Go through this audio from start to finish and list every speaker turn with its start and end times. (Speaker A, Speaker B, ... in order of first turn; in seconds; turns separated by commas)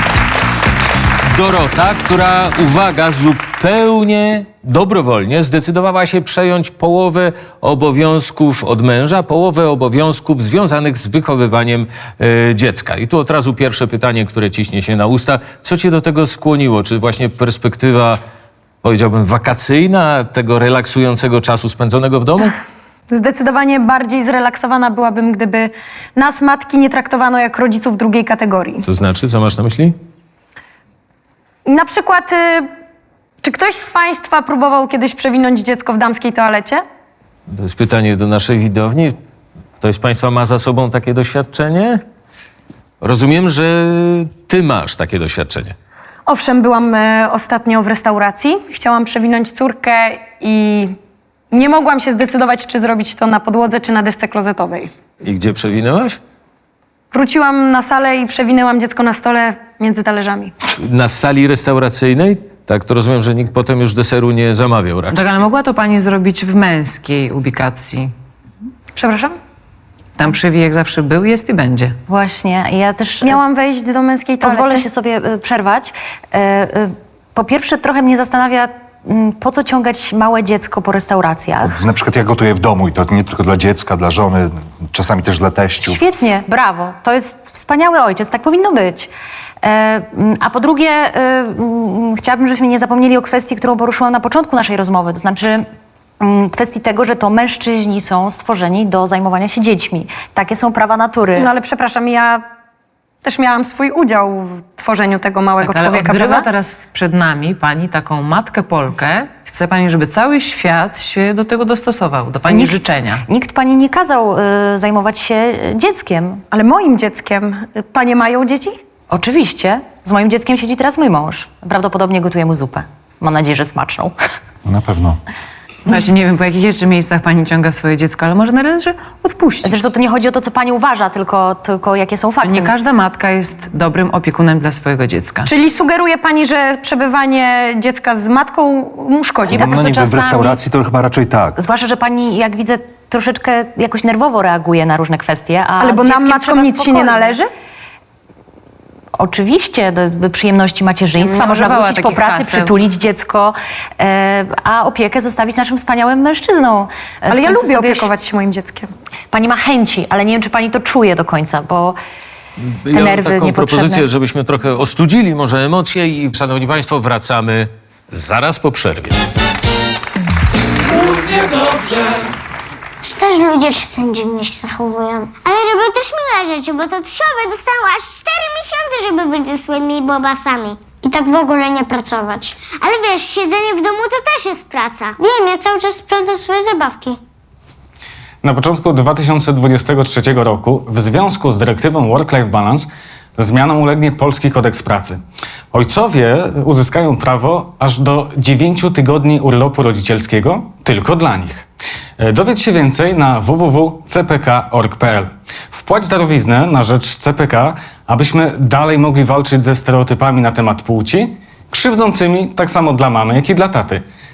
Speaker A: 1.3-18.2, Speaker A: 18.8-22.5, Speaker B: 23.1-28.8, Speaker A: 28.8-29.9, Speaker B: 31.6-32.7, Speaker B: 33.4-36.8, Speaker A: 37.5-39.1, Speaker A: 39.8-42.0, Speaker A: 43.0-45.8, Speaker B: 46.3-51.0, Speaker B: 51.5-54.9, Speaker A: 55.2-56.2, Speaker B: 57.1-60.5, Speaker A: 60.8-65.3, Speaker C: 65.1-68.1, Speaker B: 69.0-69.3, Speaker C: 70.2-72.0, Speaker D: 72.1-73.4, Speaker B: 73.2-74.8, Speaker D: 74.4-81.7, Speaker E: 81.6-86.0, Speaker D: 85.8-89.1, Speaker D: 89.6-95.7, Speaker D: 96.2-101.5, Speaker B: 101.3-102.4, Speaker B: 103.2-106.5, Speaker C: 105.6-113.2, Speaker D: 112.5-116.4, Speaker B: 116.5-118.8, Speaker D: 119.1-124.1, Speaker E: 124.6-125.2, Speaker C: 125.9-129.8, Speaker D: 129.6-132.7, Speaker C: 132.4-135.5, Speaker B: 135.4-139.7, Speaker E: 139.5-141.6, Speaker D: 139.5-140.6, Speaker D: 141.6-147.3, Speaker B: 145.8-147.5, Speaker D: 149.2-158.1, Speaker C: 151.2-152.8, Speaker B: 157.3-158.9, Speaker D: 159.3-162.0, Speaker A: 162.8-169.2, Speaker D: 162.9-164.1, Speaker F: 173.0-187.2, Speaker G: 188.4-195.2, Speaker G: 195.7-201.7, Speaker G: 202.2-214.0